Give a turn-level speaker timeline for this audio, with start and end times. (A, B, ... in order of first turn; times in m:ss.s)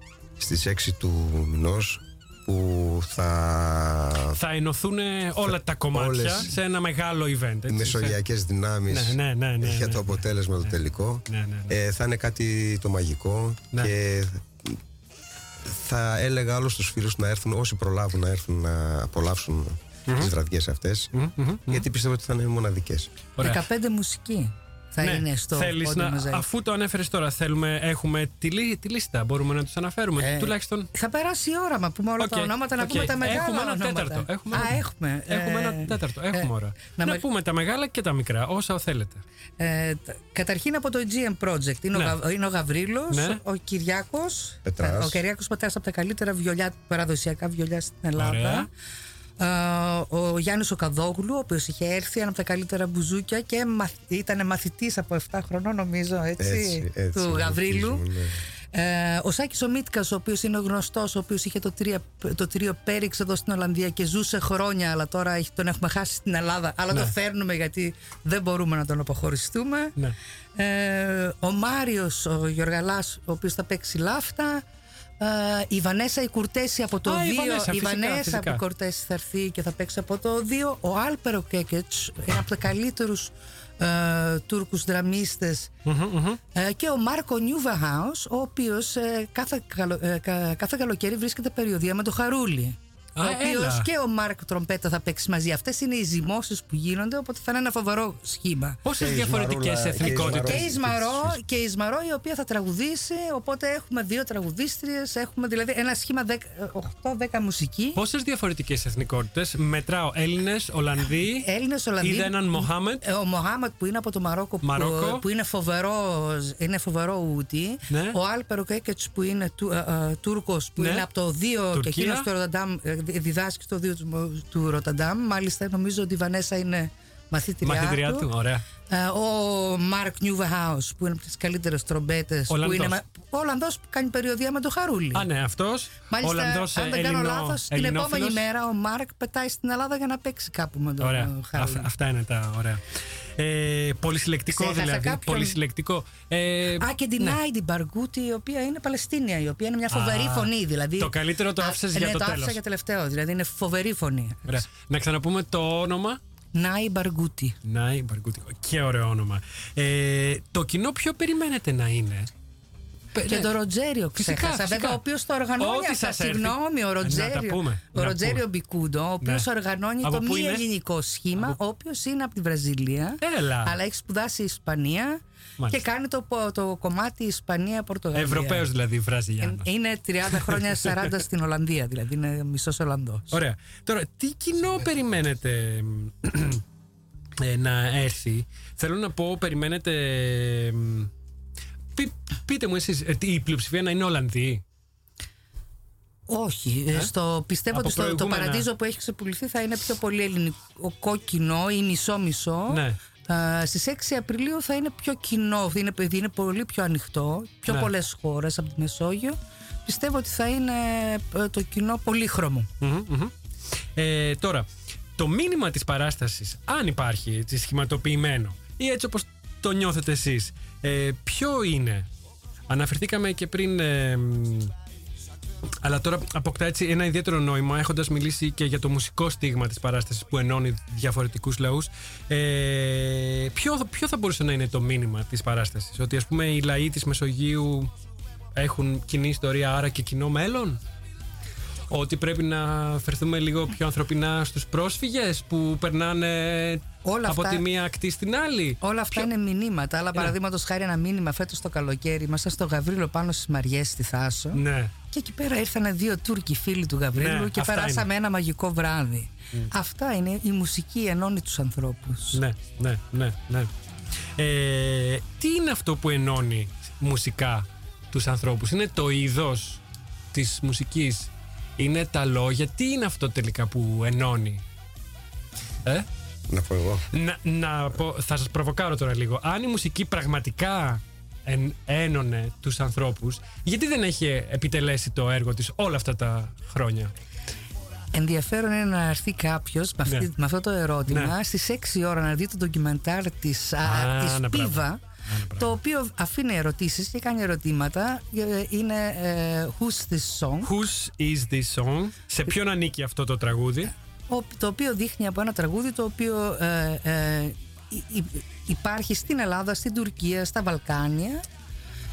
0:00.4-0:04.4 A
0:04.4-0:08.2 B
0:05.9-0:06.6 A
0:07.7-0:14.8 A
0:08.9-0:11.7 B
0:15.6-0:21.1 A
0:20.1-0:20.3 B
0:21.1-0:21.9 B
0:21.7-0:23.1 A
0:23.4-0:26.4 C
0:25.0-0:30.9 B
0:30.2-0:37.2 C
0:32.2-0:39.2 B
0:39.6-0:48.7 C
0:41.9-0:42.2 B
0:43.1-0:43.4 B
0:44.6-0:45.2 A
0:48.2-0:48.7 B
0:49.4-0:58.0 C
0:56.4-0:58.4 A
0:58.7-1:09.9 C
1:10.6-1:14.6 C
1:15.2-1:25.7 C
1:17.1-1:18.6 B
1:25.9-1:26.4 B
1:26.5-1:38.8 C
1:33.2-1:33.9 B
1:38.8-1:40.9 B
1:38.9-1:41.4 A
1:40.0-1:48.0 C
1:48.0-1:51.5 B
1:51.4-2:08.3 C
1:52.0-1:53.0 B
1:54.6-1:55.2 B
1:57.9-1:58.2 B
2:00.8-2:01.1 B
2:01.7-2:02.3 B
2:07.6-2:08.6 B
2:08.9-2:15.3 C
2:12.5-2:13.0 B
2:15.1-2:18.4 B
2:16.1-2:21.9 C
2:21.0-2:22.8 B
2:23.4-2:27.4 B
2:24.5-2:25.6 C
2:26.8-2:34.6 C
2:29.9-2:32.6 B
2:34.4-2:36.2 B
2:36.6-2:37.6 C
2:37.6-2:42.3 B
2:43.1-2:43.5 B
2:43.2-2:58.7 C
2:44.1-2:45.0 B
2:45.6-2:48.4 B
2:49.2-2:49.5 B
2:50.0-2:50.7 B
2:53.2-2:53.8 B
2:58.1-2:59.7 B
2:59.4-3:03.4 C
3:00.3-3:01.1 B
3:03.3-3:06.6 B
3:07.4-3:11.1 B
3:12.0-3:14.6 B
3:16.3-3:32.7 C
3:17.7-3:18.7 B
3:22.7-3:23.0 B
3:27.7-3:27.9 B
3:32.8-3:33.3 B
3:34.0-3:42.1 B
3:42.7-3:44.7 B
3:45.8-3:57.9 B
3:58.6-4:00.8 B
4:01.9-4:09.3 B
4:07.0-4:07.6 C
4:08.8-4:22.4 C
4:14.5-4:14.9 B
4:17.1-4:18.1 B
4:22.3-4:23.7 B
4:24.4-4:29.8 B
4:30.3-4:34.6 B
4:36.5-4:37.1 A
4:37.1-4:47.1 B
4:48.1-4:55.0 C
4:51.1-4:51.4 B
4:53.8-4:55.8 B
4:55.6-5:00.7 C
5:00.6-5:03.9 B
5:03.9-5:11.4 C